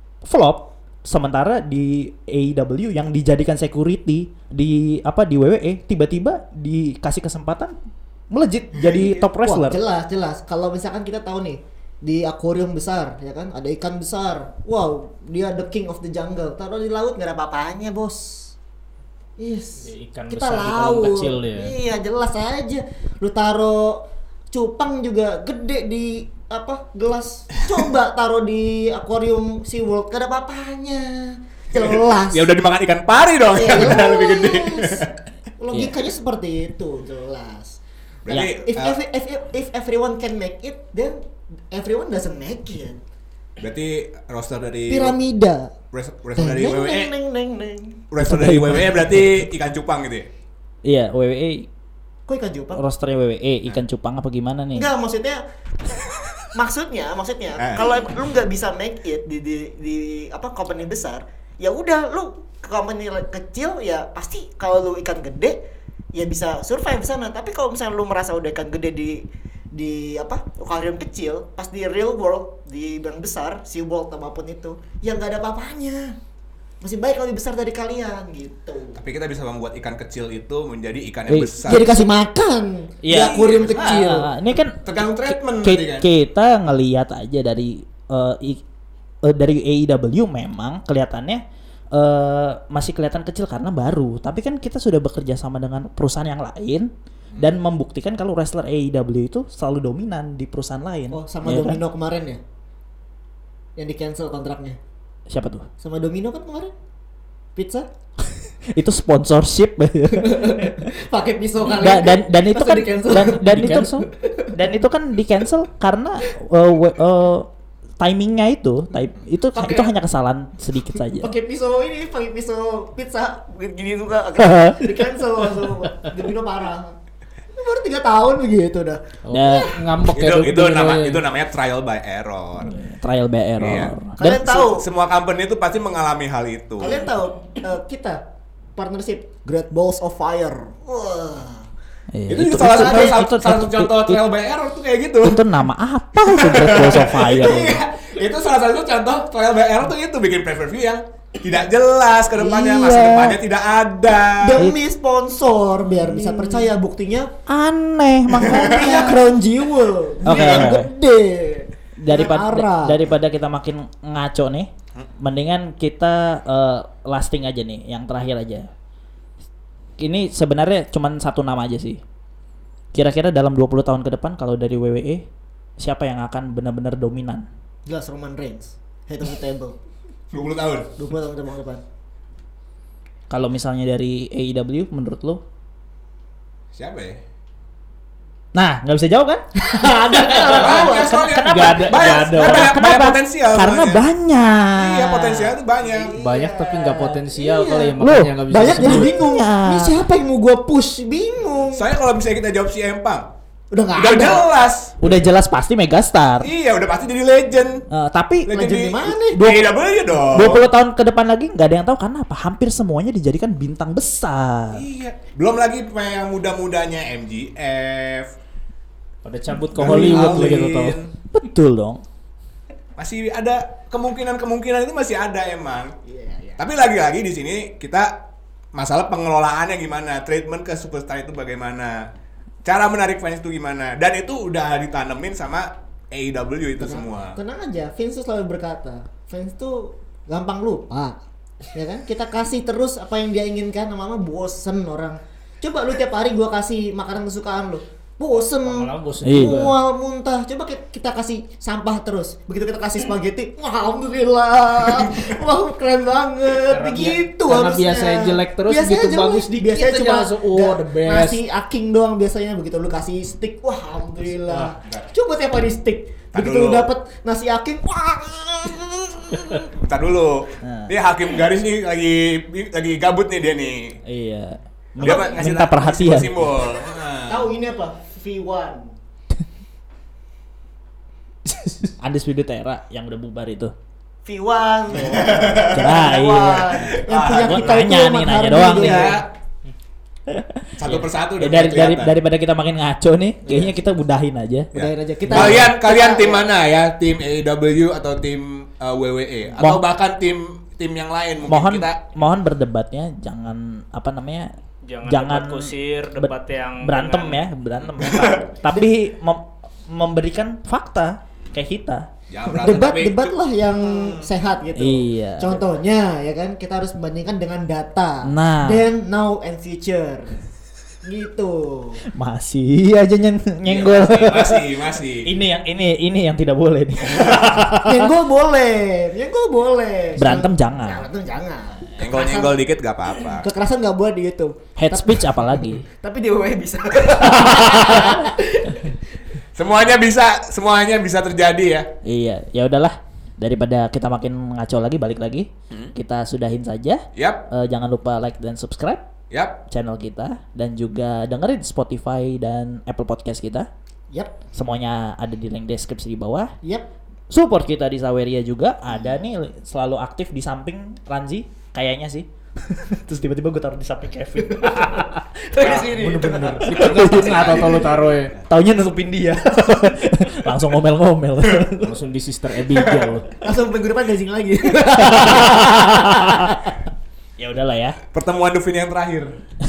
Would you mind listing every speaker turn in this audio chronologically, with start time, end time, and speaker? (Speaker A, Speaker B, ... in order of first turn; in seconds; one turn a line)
Speaker A: 0.2-7.8
Speaker A: 8.3-9.8
Speaker B: 9.0-18.5
Speaker B: 19.4-32.5
Speaker C: 19.8-21.7
Speaker D: 31.7-35.1
Speaker B: 33.5-35.1
Speaker B: 35.6-37.8
Speaker D: 38.2-39.0
Speaker B: 38.4-41.2
Speaker B: 41.7-43.0
Speaker D: 43.6-45.1
Speaker B: 44.9-45.7
Speaker D: 45.9-47.1
Speaker B: 46.4-48.1
Speaker D: 48.1-50.3
Speaker A: 48.2-49.5
Speaker A: 50.8-51.7
Speaker B: 52.3-52.8
Speaker A: 52.7-54.9
Speaker B: 54.7-55.4
Speaker B: 56.4-65.6
Speaker D: 57.6-57.8
Speaker B: 66.1-76.2
Speaker B: 76.8-79.0
Speaker D: 79.0-81.9
Speaker A: 81.3-82.1
Speaker B: 81.6-84.3
Speaker A: 83.0-88.6
Speaker D: 83.1-84.1
Speaker D: 84.8-86.1
Speaker A: 89.2-91.4
Speaker A: 91.9-101.8
Speaker B: 101.1-102.4
Speaker B: 103.8-104.8
Speaker A: 105.3-105.7
Speaker B: 105.8-106.7
Speaker B: 107.5-107.9
Speaker A: 108.7-110.9
Speaker B: 110.2-114.5
Speaker A: 111.7-117.5
Speaker C: 113.5-113.9
Speaker A: 118.0-121.3
Speaker B: 119.5-119.9
Speaker B: 121.1-127.0
Speaker A: 124.4-124.8
Speaker B: 127.6-129.7
Speaker C: 129.2-131.2
Speaker A: 129.3-129.7
Speaker D: 130.1-132.8
Speaker A: 132.6-134.6
Speaker D: 133.6-133.9
Speaker B: 134.2-134.8
Speaker D: 134.5-137.0
Speaker B: 136.8-138.2
Speaker B: 138.8-141.7
Speaker A: 142.1-144.2
Speaker D: 142.3-145.4
Speaker B: 142.5-143.2
Speaker A: 145.2-147.8
Speaker D: 146.3-154.7
Speaker B: 147.4-147.8
Speaker A: 152.4-153.4
Speaker B: 154.4-157.3
Speaker A: 156.2-156.5
Speaker A: 157.5-159.4
Speaker D: 158.4-159.3
Speaker B: 158.4-163.0
Speaker A: 160.2-160.9
Speaker D: 160.3-160.7
Speaker A: 162.0-164.7
Speaker A: 165.2-168.7
Speaker A: 170.0-172.0
Speaker A: 172.9-175.2
Speaker A: 175.8-177.5
Speaker B: 177.8-179.8
Speaker D: 180.3-180.9
Speaker B: 181.0-181.8
Speaker A: 183.3-185.4
Speaker D: 186.7-187.2
Speaker A: 188.5-189.4
Speaker B: 189.6-191.2
Speaker D: 190.3-194.0
Speaker A: 190.9-195.5
Speaker C: 191.4-192.8
Speaker D: 194.8-196.1
Speaker B: 195.8-201.9
Speaker C: 196.1-199.2
Speaker A: 198.0-199.9
Speaker D: 201.7-203.3
Speaker B: 203.7-204.5
Speaker D: 204.0-205.2
Speaker A: 205.0-206.5
Speaker D: 206.4-207.8
Speaker A: 207.9-208.5
Speaker D: 208.5-210.7
Speaker B: 208.5-209.5
Speaker A: 209.3-209.7
Speaker A: 210.3-214.8
Speaker D: 214.7-218.3
Speaker C: 219.2-221.0
Speaker A: 219.7-220.6
Speaker D: 219.7-221.1
Speaker A: 221.3-222.0
Speaker D: 223.0-225.9
Speaker B: 226.1-226.6
Speaker D: 226.6-228.2
Speaker D: 228.7-232.1
Speaker D: 232.6-237.4
Speaker B: 236.8-241.2
Speaker B: 241.7-269.7
Speaker C: 248.3-249.7
Speaker A: 249.2-249.7
Speaker C: 256.7-261.4
Speaker C: 264.4-264.7
Speaker D: 266.3-266.9
Speaker D: 269.8-274.0
Speaker A: 270.6-270.9
Speaker A: 274.0-276.5
Speaker B: 275.0-275.4
Speaker D: 275.0-277.5
Speaker B: 277.3-278.9
Speaker A: 281.9-283.7
Speaker B: 284.2-289.2
Speaker D: 284.9-285.9
Speaker A: 285.6-286.8
Speaker D: 286.8-287.8
Speaker A: 287.3-289.1
Speaker D: 288.6-289.3
Speaker A: 290.3-294.7
Speaker D: 290.8-292.1
Speaker B: 294.7-296.5
Speaker D: 294.7-302.0
Speaker A: 295.3-295.7
Speaker A: 299.6-299.8
Speaker A: 301.5-304.5
Speaker C: 304.8-307.5
Speaker A: 305.1-312.1
Speaker D: 308.0-308.4
Speaker D: 312.3-314.3
Speaker B: 312.5-320.4
Speaker A: 314.8-315.6
Speaker A: 318.2-318.8
Speaker B: 321.0-322.0
Speaker A: 322.1-328.1
Speaker D: 323.6-325.3
Speaker D: 327.1-327.6
Speaker B: 327.7-332.6
Speaker A: 330.2-331.0
Speaker D: 332.0-333.5
Speaker B: 333.2-338.9
Speaker A: 334.8-335.8
Speaker A: 337.2-338.3
Speaker D: 339.5-341.9
Speaker A: 342.0-349.1
Speaker D: 347.1-347.4
Speaker D: 349.3-349.6
Speaker A: 349.7-353.7
Speaker B: 354.1-354.4
Speaker A: 354.5-356.5
Speaker B: 356.6-356.9
Speaker A: 357.3-367.8
Speaker B: 364.6-366.7
Speaker D: 365.6-368.4
Speaker C: 366.6-368.3
Speaker A: 368.5-371.9
Speaker C: 371.8-373.3
Speaker D: 372.8-373.1
Speaker B: 373.4-375.9
Speaker A: 374.8-376.7
Speaker A: 377.4-378.0
Speaker D: 378.1-379.4